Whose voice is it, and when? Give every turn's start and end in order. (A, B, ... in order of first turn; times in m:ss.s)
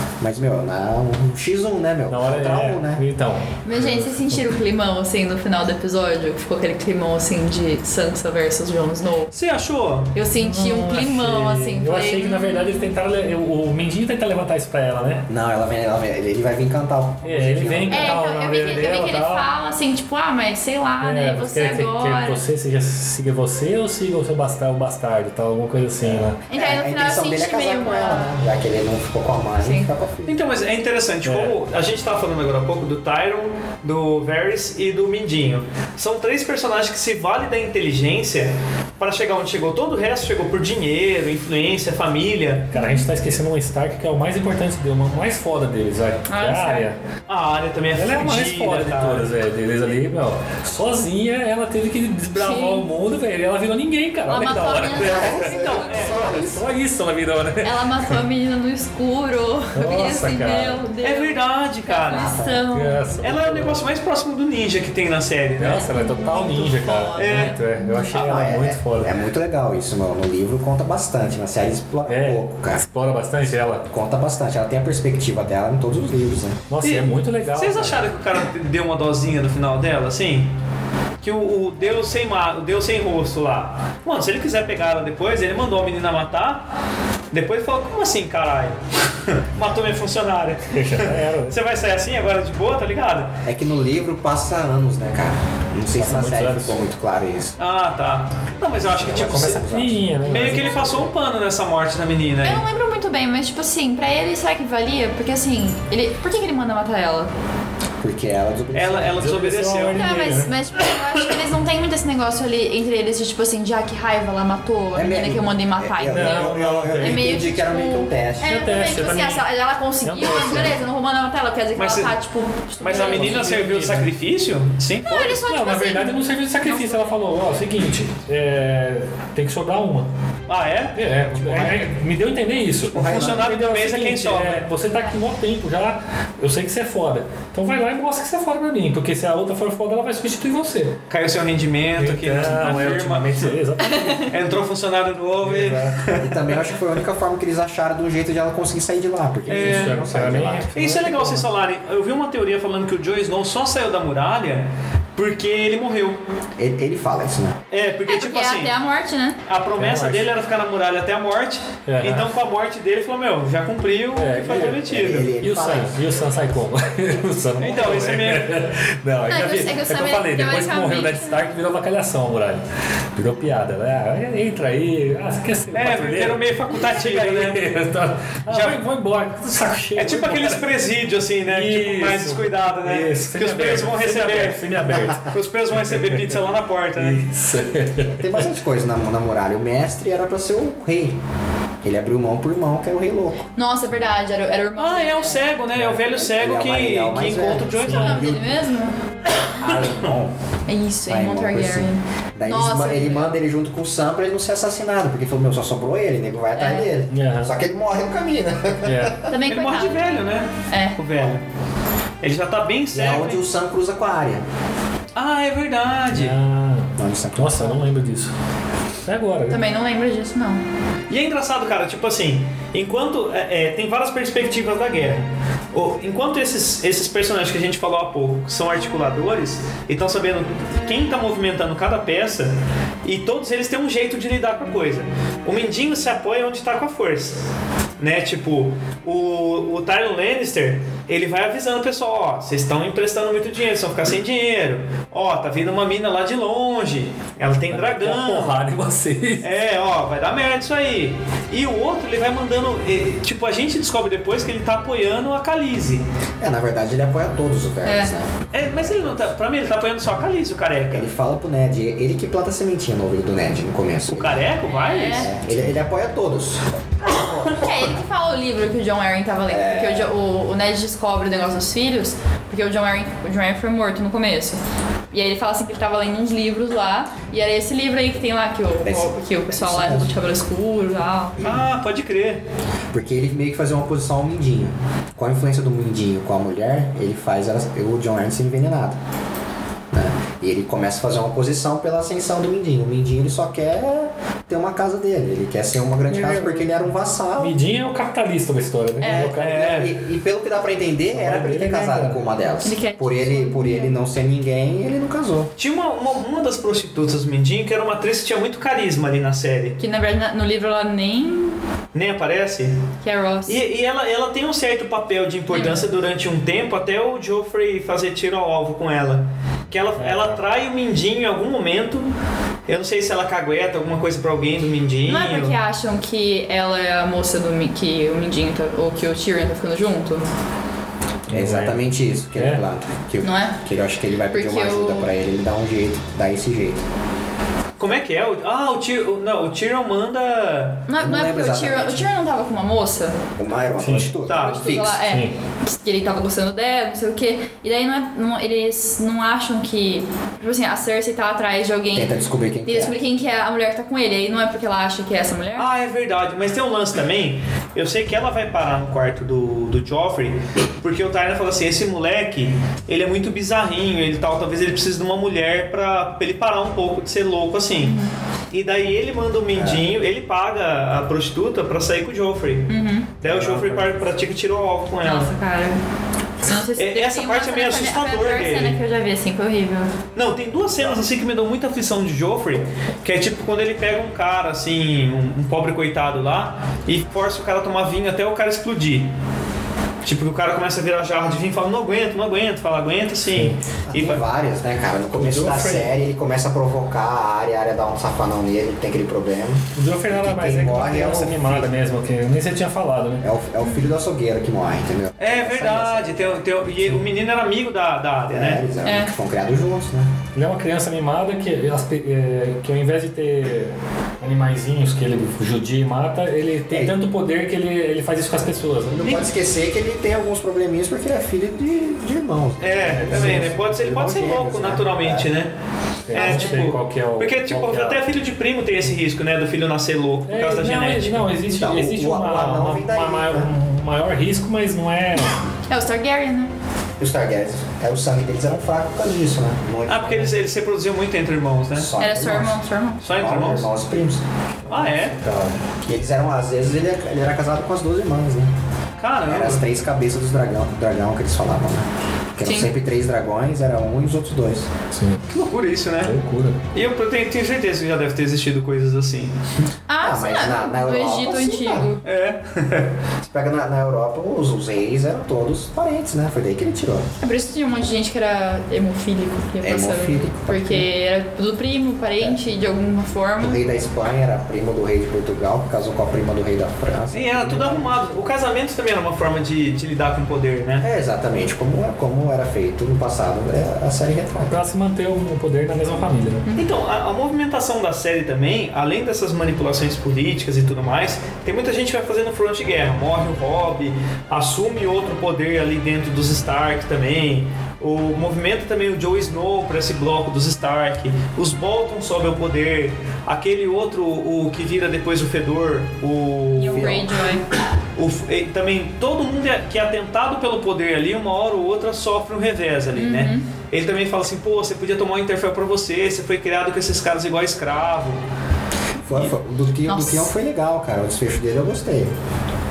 0:00.2-0:03.0 A
0:02.1-0:04.5 B
0:03.6-0:09.3 C
0:09.3-0:10.1 D
0:10.1-0:12.9 C
0:10.4-0:15.2 B
0:15.3-0:18.2 A
0:17.2-0:19.5 B
0:17.9-0:22.4 C
0:21.0-0:26.4 B
0:26.0-0:30.4 A
0:26.5-0:28.3 C
0:29.6-0:29.9 C
0:30.3-0:42.7 D
0:31.2-0:31.6 B
0:42.7-0:43.1 C
0:42.7-0:47.0 B
0:46.3-0:46.9 C
0:47.3-0:49.3 D
0:48.0-0:55.5 B
0:52.4-0:52.9 C
0:54.3-0:56.1 C
0:54.9-0:56.7 A
0:55.4-0:56.4 D
0:56.1-0:58.2 B
0:57.6-1:03.0 C
0:59.8-1:00.8 B
1:01.0-1:02.4 D
1:02.1-1:02.6 A
1:02.7-1:03.8 B
1:03.2-1:05.9 D
1:05.6-1:09.1 B
1:05.7-1:08.2 C
1:07.2-1:07.5 D
1:08.1-1:12.8 A
1:12.1-1:13.8 B
1:13.9-1:16.6 A
1:16.7-1:18.0 B
1:16.8-1:20.5 D
1:21.2-1:26.7 D
1:27.3-1:33.4 D
1:30.7-1:31.6 B
1:33.4-1:37.6 A
1:36.0-1:36.8 B
1:37.6-1:39.6 D
1:38.8-1:41.1 A
1:39.2-1:41.0 B
1:40.2-1:42.6 D
1:42.4-1:47.3 C
1:48.0-1:49.2 A
1:48.7-1:50.1 D
1:49.2-1:50.5 B
1:50.0-2:03.5 C
1:54.9-1:58.5 A
1:56.1-1:57.3 B
1:58.4-1:59.4 B
2:00.0-2:00.8 B
2:01.8-2:02.1 D
2:02.8-2:05.2 D
2:02.9-2:04.1 B
2:05.1-2:07.1 C
2:05.1-2:10.1 B
2:10.5-2:11.0 D
2:11.0-2:21.0 B
2:11.3-2:11.8 A
2:12.9-2:13.5 A
2:13.0-2:14.6 D
2:21.1-2:23.6 D
2:22.0-2:24.3 B
2:23.8-2:24.3 C
2:24.3-2:26.4 D
2:25.4-2:26.0 B
2:26.2-2:30.7 A
2:29.5-2:31.5 B
2:29.5-2:30.0 D
2:30.8-2:36.2 D
2:36.6-2:37.6 A
2:37.7-2:38.7 D
2:38.1-2:39.4 C
2:39.5-2:45.3 D
2:39.8-2:40.3 B
2:41.9-2:42.3 B
2:44.2-2:44.8 B
2:44.6-2:46.1 A
2:45.4-2:52.6 B
2:47.6-2:48.4 D
2:49.3-2:51.4 C
2:53.2-3:00.6 B
2:55.7-2:57.6 D
2:58.5-2:58.8 D
3:00.0-3:07.2 D
3:01.5-3:06.4 B
3:07.0-3:08.4 B
3:08.0-3:11.2 A
3:11.8-3:13.5 A
3:13.6-3:15.4 C
3:14.8-3:18.4 D
3:15.7-3:16.0 B
3:15.9-3:18.4 A
3:17.8-3:18.4 B
3:17.9-3:18.9 C
3:19.6-3:20.3 A
3:19.6-3:20.1 D
3:20.7-3:23.4 C
3:21.1-3:29.3 A
3:26.6-3:26.9 C
3:27.1-3:27.5 B
3:28.8-3:29.2 B
3:29.3-3:30.0 C
3:29.3-3:31.4 D
3:30.7-3:31.0 C
3:32.2-3:33.4 D
3:32.9-3:34.4 A
3:35.2-3:36.4 D
3:36.1-3:38.3 B
3:37.0-3:37.8 A
3:39.0-3:39.6 B
3:39.5-3:40.6 C
3:41.1-3:57.4 D
3:58.0-4:08.6 D
4:07.7-4:09.5 B
4:09.4-4:16.0 D
4:16.4-4:19.3 A
4:17.8-4:18.1 C
4:18.5-4:21.1 D
4:20.9-4:24.4 A
4:24.1-4:25.3 D
4:24.7-4:25.3 C
4:25.1-4:28.0 A
4:27.5-4:34.6 C
4:29.5-4:30.1 A
4:35.1-4:41.4 C
4:38.8-4:40.1 A
4:41.4-4:42.4 D
4:42.9-4:49.0 A
4:49.9-4:57.6 A
4:56.1-4:56.9 B
4:57.4-4:59.8 B
4:59.0-4:59.3 C
4:59.0-5:05.5 A
4:59.4-4:59.9 D
5:01.1-5:02.2 B
5:02.6-5:03.9 C
5:05.6-5:09.8 D
5:09.8-5:11.6 C
5:11.9-5:12.8 D
5:13.0-5:13.6 C
5:13.5-5:22.1 D
5:15.5-5:15.9 C
5:20.0-5:20.4 B
5:22.7-5:25.6 D
5:25.1-5:30.2 C
5:31.3-5:31.8 B
5:31.3-5:36.8 A
5:32.3-5:32.6 B
5:33.2-5:33.6 C
5:34.3-5:35.1 C
5:37.8-5:40.9 D
5:40.9-5:43.2 C
5:41.0-5:42.1 A
5:43.4-5:45.0 A
5:43.8-5:44.1 B
5:44.3-5:44.8 D
5:44.3-5:52.1 C
5:44.9-5:45.3 B
5:51.9-5:53.0 A
5:52.6-5:55.7 C
5:55.6-6:08.0 D
6:07.8-6:08.1 C
6:08.5-6:12.7 D
6:09.6-6:09.8 A
6:12.7-6:13.1 C
6:13.2-6:15.3 D
6:13.2-6:14.0 B
6:15.0-6:15.8 C
6:16.4-6:19.9 C
6:16.8-6:18.8 D
6:20.2-6:29.1 D
6:30.0-6:34.2 D
6:33.3-6:33.6 B
6:33.9-6:41.7 A
6:35.2-6:35.9 B
6:39.8-6:43.2 B
6:43.2-6:46.4 A
6:43.6-6:43.9 C
6:45.2-6:48.6 D
6:48.3-6:50.1 A
6:48.8-6:49.1 C
6:50.4-6:59.2 B
6:56.7-6:57.0 A
6:58.9-7:05.3 A
7:02.6-7:05.5 D
7:02.9-7:03.6 B
7:06.1-7:08.0 B
7:06.1-7:11.3 D
7:06.2-7:06.6 C
7:10.3-7:15.4 B
7:11.5-7:13.5 A
7:15.7-7:16.5 C
7:17.0-7:20.3 A
7:19.9-7:21.9 D
7:21.8-7:24.2 A
7:22.0-7:23.0 C
7:23.0-7:23.7 D
7:24.7-7:25.6 B
7:24.7-7:25.2 D
7:25.8-7:28.5 A
7:29.0-7:29.6 D
7:29.2-7:34.7 A
7:32.4-7:32.7 C
7:34.9-7:35.2 B
7:35.3-7:36.1 D
7:36.0-7:36.6 B
7:36.7-7:39.3 D
7:39.9-7:42.0 C
7:40.0-7:41.9 A
7:42.0-7:42.9 D
7:43.2-7:47.1 A
7:47.2-7:53.6 C
7:49.6-7:50.9 A
7:53.4-7:57.9 A
7:57.1-8:00.8 D
8:00.8-8:04.6 A
8:04.5-8:06.4 B
8:06.6-8:27.0 D
8:26.6-8:27.4 C
8:26.7-8:27.1 A
8:28.0-8:38.2 D
8:33.0-8:33.5 C
8:39.1-8:42.1 A
8:39.9-8:40.3 C